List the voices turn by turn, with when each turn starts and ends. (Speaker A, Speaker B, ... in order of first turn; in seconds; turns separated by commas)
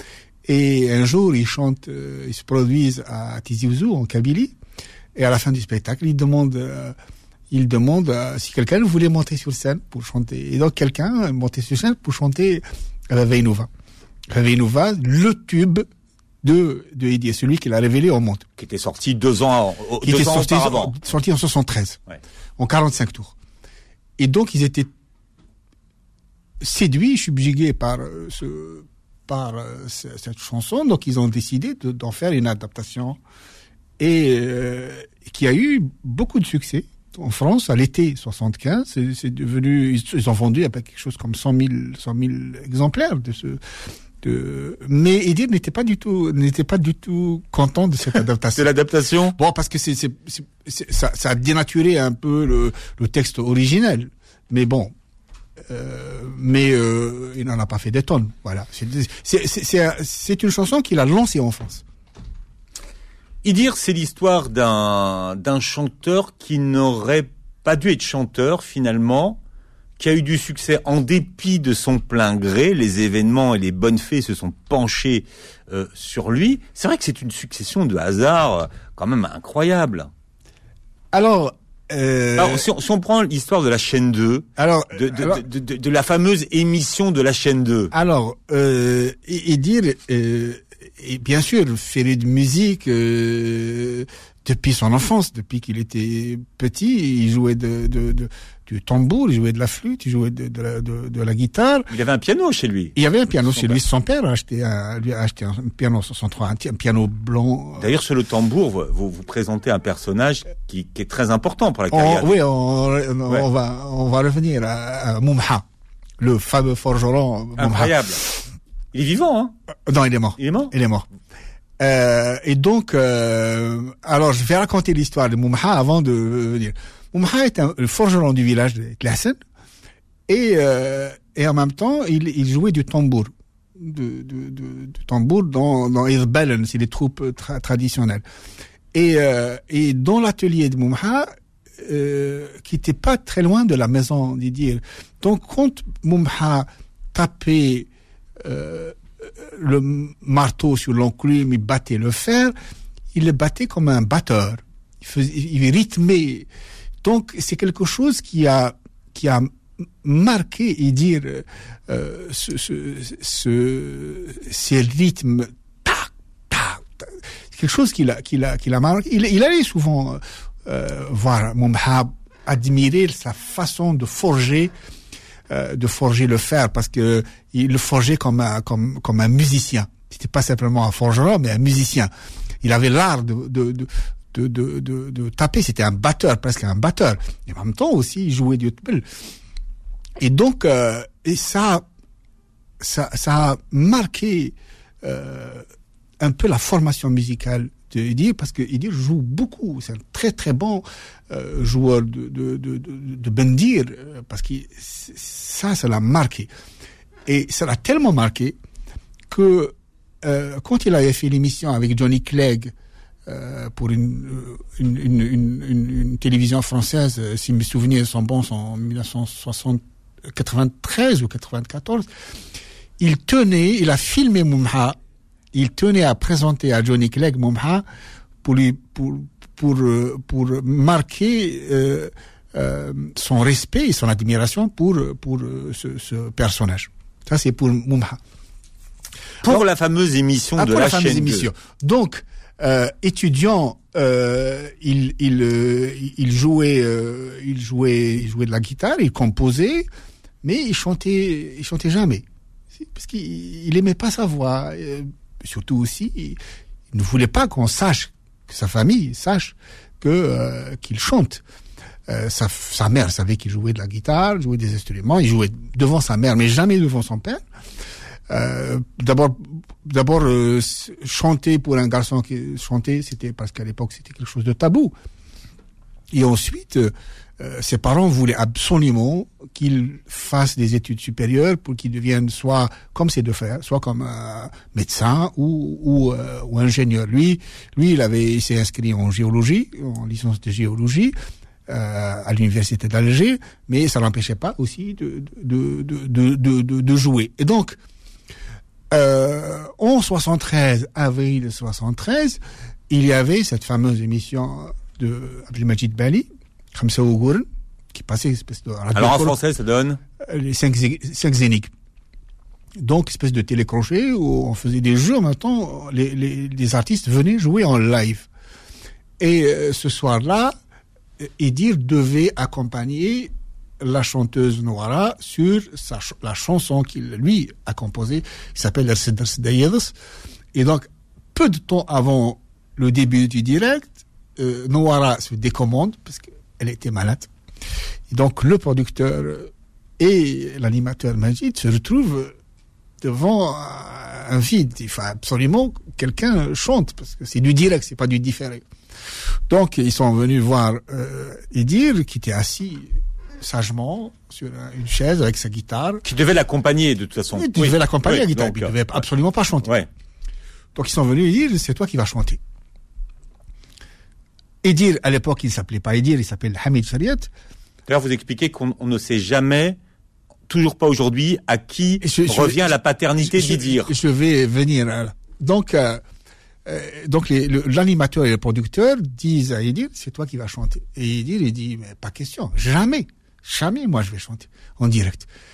Speaker A: 0.5-4.5, Speaker A: 5.2-7.0, Speaker A: 7.5-13.7, Speaker A: 14.3-15.9, Speaker A: 16.4-18.4, Speaker B: 18.6-21.0, Speaker A: 20.0-22.0, Speaker A: 22.6-23.4, Speaker A: 24.2-24.9, Speaker A: 26.6-33.2, Speaker A: 34.0-43.6, Speaker A: 44.2-48.7, Speaker B: 48.5-49.4, Speaker A: 49.4-54.9, Speaker A: 55.7-61.8, Speaker B: 63.4-69.4, Speaker B: 70.0-80.1, Speaker A: 81.1-82.7, Speaker B: 82.4-87.9, Speaker A: 84.6-85.4, Speaker A: 87.9-101.9, Speaker B: 101.9-103.0, Speaker A: 103.0-107.9, Speaker B: 103.5-103.8, Speaker B: 107.8-112.4, Speaker A: 111.9-115.7, Speaker A: 116.2-118.4, Speaker B: 117.6-118.2, Speaker B: 118.9-119.5, Speaker A: 119.9-121.1, Speaker B: 120.4-120.7, Speaker A: 121.8-129.4, Speaker A: 130.3-138.2, Speaker A: 138.9-147.9, Speaker A: 148.4-152.6, Speaker A: 153.1-156.5, Speaker A: 157.0-174.7, Speaker A: 175.5-182.1, Speaker A: 182.6-189.0, Speaker A: 190.2-191.9, Speaker A: 192.8-195.7, Speaker A: 196.2-206.5, Speaker A: 207.3-208.6, Speaker A: 209.3-212.7, Speaker A: 213.3-222.1, Speaker A: 223.0-225.0, Speaker A: 225.5-227.8, Speaker A: 228.4-238.2, Speaker B: 239.4-241.5, Speaker A: 240.6-249.9, Speaker A: 250.4-256.4, Speaker A: 256.9-261.4, Speaker A: 262.1-267.4, Speaker A: 268.3-274.9, Speaker A: 276.1-291.1, Speaker A: 291.7-297.8, Speaker A: 298.9-309.4, Speaker B: 308.9-310.0, Speaker A: 310.2-311.7, Speaker A: 312.8-318.3, Speaker A: 319.2-320.5, Speaker A: 321.2-329.9, Speaker A: 330.5-337.3, Speaker A: 338.1-342.4, Speaker A: 343.0-348.6, Speaker A: 349.5-356.0, Speaker B: 356.0-359.0, Speaker A: 357.3-359.7, Speaker B: 359.6-359.9, Speaker A: 360.8-362.4, Speaker A: 364.6-367.3, Speaker B: 367.9-369.8, Speaker B: 370.5-373.9, Speaker A: 372.0-376.0, Speaker A: 376.6-385.3